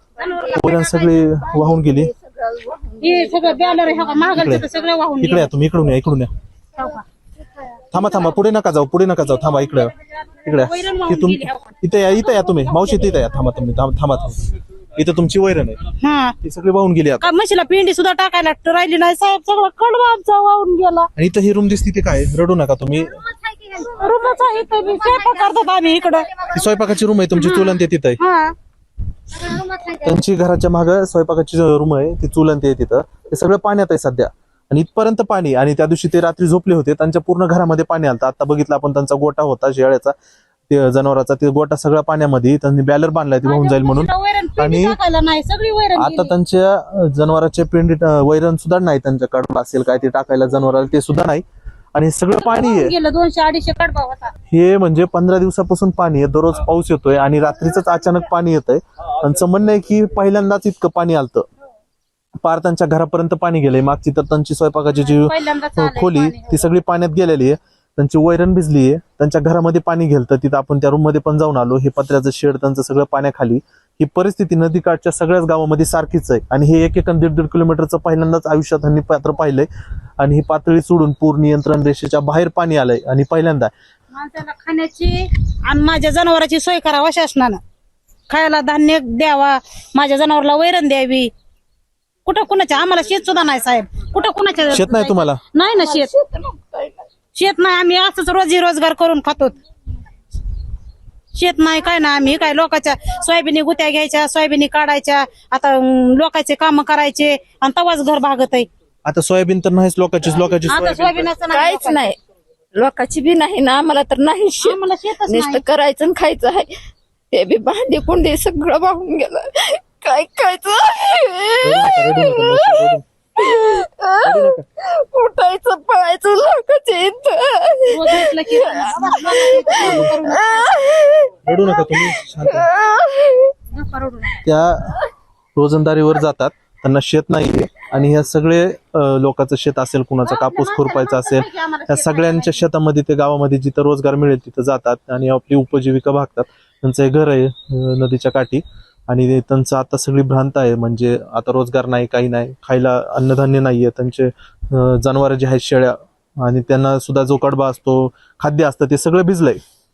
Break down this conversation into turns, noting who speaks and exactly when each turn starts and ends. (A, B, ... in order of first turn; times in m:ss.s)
0:00.2-0:01.0 A
0:00.2-0:04.5 B
0:00.6-0:02.1 C
0:03.0-0:05.5 A
0:04.3-0:04.6 C
0:05.2-0:06.3 C
0:06.8-0:07.0 A
0:07.9-0:09.9 C
0:10.4-0:11.8 A
0:10.4-0:14.4 C
0:12.5-0:12.9 A
0:14.9-0:15.8 C
0:16.0-0:16.4 A
0:16.4-0:17.3 C
0:17.2-0:21.1 A
0:21.2-0:23.2 C
0:23.7-0:26.3 A
0:26.5-0:28.2 C
0:27.4-0:28.5 A
0:30.0-0:40.1 C
0:40.7-0:45.0 C
0:43.4-0:46.3 A
0:46.0-0:51.4 C
0:51.9-0:52.9 C
0:52.4-0:54.3 A
0:54.5-1:01.5 C
1:02.4-1:19.7 C
1:05.0-1:06.6 A
1:20.2-1:23.7 C
1:24.1-1:27.6 A
1:28.3-1:31.3 A
1:32.2-1:36.1 A
1:34.7-1:35.4 C
1:35.8-1:37.1 B
1:37.3-1:39.6 A
1:41.3-1:48.7 A
1:49.0-1:51.3 C
1:50.6-1:52.1 A
1:51.5-1:52.2 B
1:52.7-1:56.7 B
1:54.6-1:55.6 A
1:57.3-2:13.5 B
2:01.6-2:03.0 C
2:04.2-2:04.6 C
2:07.9-2:10.7 A
2:09.8-2:10.1 C
2:11.4-2:12.7 C
2:13.7-2:14.4 A
2:14.4-2:15.0 C
2:15.6-2:39.6 C
2:20.2-2:22.6 A